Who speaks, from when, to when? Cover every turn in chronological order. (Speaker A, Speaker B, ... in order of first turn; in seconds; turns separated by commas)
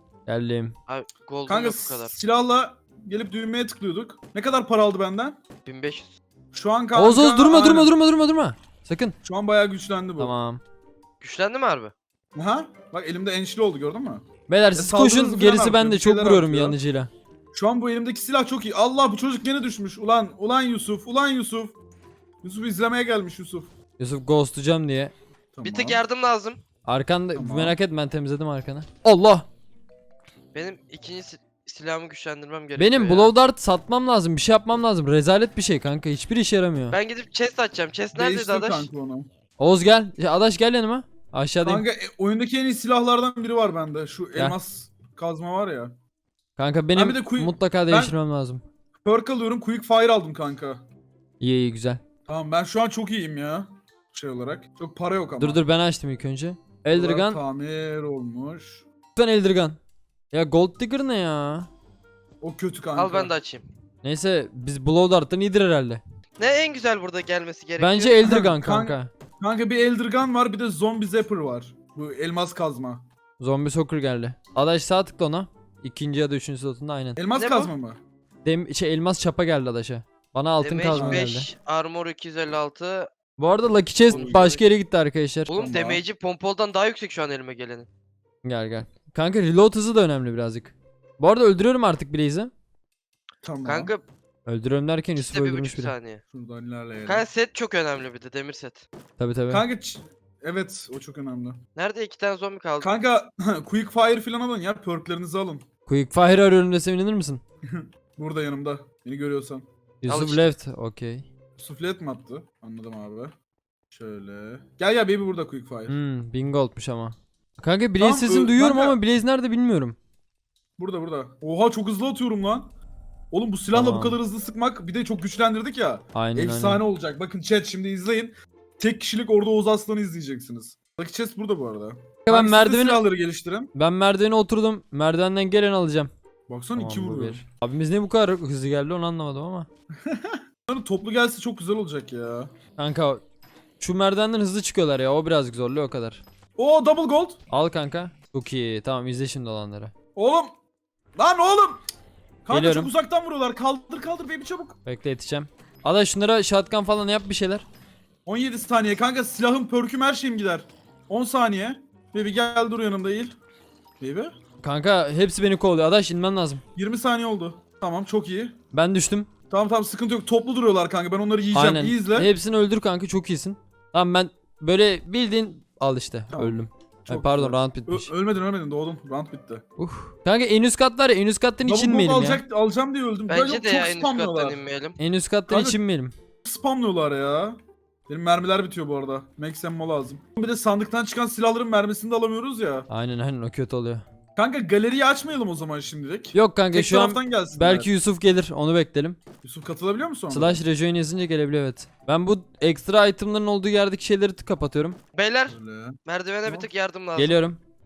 Speaker A: 0.3-0.7, Speaker B: 0.9-2.2, Speaker C: 1.5-5.4, Speaker B: 5.7-6.1, Speaker C: 6.5-8.0, Speaker A: 6.9-9.2, Speaker C: 9.2-10.3, Speaker A: 10.2-10.6, Speaker B: 11.2-11.9, Speaker C: 12.3-14.2, Speaker A: 14.5-17.1, Speaker C: 14.8-16.8, Speaker C: 17.5-21.8, Speaker C: 22.4-23.7, Speaker A: 24.0-25.1, Speaker C: 25.5-26.0, Speaker B: 25.6-26.6, Speaker A: 26.9-29.5, Speaker C: 27.3-27.8, Speaker B: 30.5-33.3, Speaker A: 32.8-37.0, Speaker B: 36.9-38.9, Speaker C: 38.1-39.3, Speaker A: 39.6-41.9, Speaker C: 41.6-46.0, Speaker A: 46.6-48.6, Speaker C: 47.0-48.1, Speaker C: 49.0-50.8, Speaker A: 51.4-52.0, Speaker C: 52.3-55.6, Speaker A: 55.4-57.4, Speaker C: 56.9-58.9, Speaker A: 59.2-59.8, Speaker A: 60.3-61.7, Speaker C: 62.4-63.3, Speaker B: 63.0-63.7, Speaker A: 64.0-66.0, Speaker B: 66.4-68.2, Speaker A: 67.8-69.1, Speaker C: 68.2-73.0, Speaker A: 73.4-77.2, Speaker C: 77.2-78.0, Speaker B: 77.4-77.7, Speaker A: 78.5-81.5, Speaker B: 80.6-83.1, Speaker C: 81.0-81.3, Speaker A: 83.4-85.5, Speaker B: 84.1-84.6, Speaker C: 84.1-84.5, Speaker B: 85.5-87.9, Speaker C: 85.5-86.0, Speaker A: 88.4-92.5, Speaker C: 93.4-93.9, Speaker B: 93.7-94.0, Speaker A: 94.5-95.9, Speaker B: 95.2-96.2, Speaker C: 96.3-97.3, Speaker B: 97.1-98.8, Speaker A: 99.2-99.7, Speaker C: 99.5-101.6, Speaker B: 101.8-102.9, Speaker C: 102.8-105.7, Speaker A: 105.9-107.4, Speaker C: 107.7-109.7, Speaker A: 110.0-111.2, Speaker B: 110.1-110.5, Speaker C: 111.6-113.3, Speaker C: 113.9-116.0, Speaker A: 115.9-120.0, Speaker C: 118.0-119.0, Speaker C: 120.8-122.7, Speaker C: 123.3-133.7, Speaker A: 123.7-124.2, Speaker A: 126.1-126.8, Speaker A: 132.3-133.0, Speaker A: 133.8-136.1, Speaker C: 136.5-137.4, Speaker A: 136.8-139.7, Speaker C: 140.0-142.5, Speaker A: 142.8-143.2, Speaker A: 143.8-146.2, Speaker C: 146.6-147.4, Speaker A: 147.5-149.9, Speaker C: 150.2-150.5, Speaker C: 151.2-151.8, Speaker C: 152.5-154.8, Speaker A: 152.5-152.9, Speaker A: 154.9-157.7, Speaker C: 158.3-163.4, Speaker C: 164.0-164.3, Speaker A: 164.6-166.6, Speaker C: 166.8-168.6, Speaker A: 168.7-169.3, Speaker C: 169.5-172.3, Speaker A: 171.5-178.1, Speaker C: 176.3-179.6, Speaker A: 179.8-182.4, Speaker C: 181.6-184.6, Speaker B: 183.3-185.0, Speaker A: 185.0-186.1, Speaker C: 185.5-185.8, Speaker C: 186.4-187.6, Speaker C: 188.1-192.9, Speaker A: 192.9-194.0, Speaker C: 194.4-197.9, Speaker A: 196.3-199.2, Speaker C: 199.4-200.6, Speaker A: 200.3-205.0, Speaker B: 205.2-207.4, Speaker C: 205.5-206.7, Speaker A: 207.2-207.6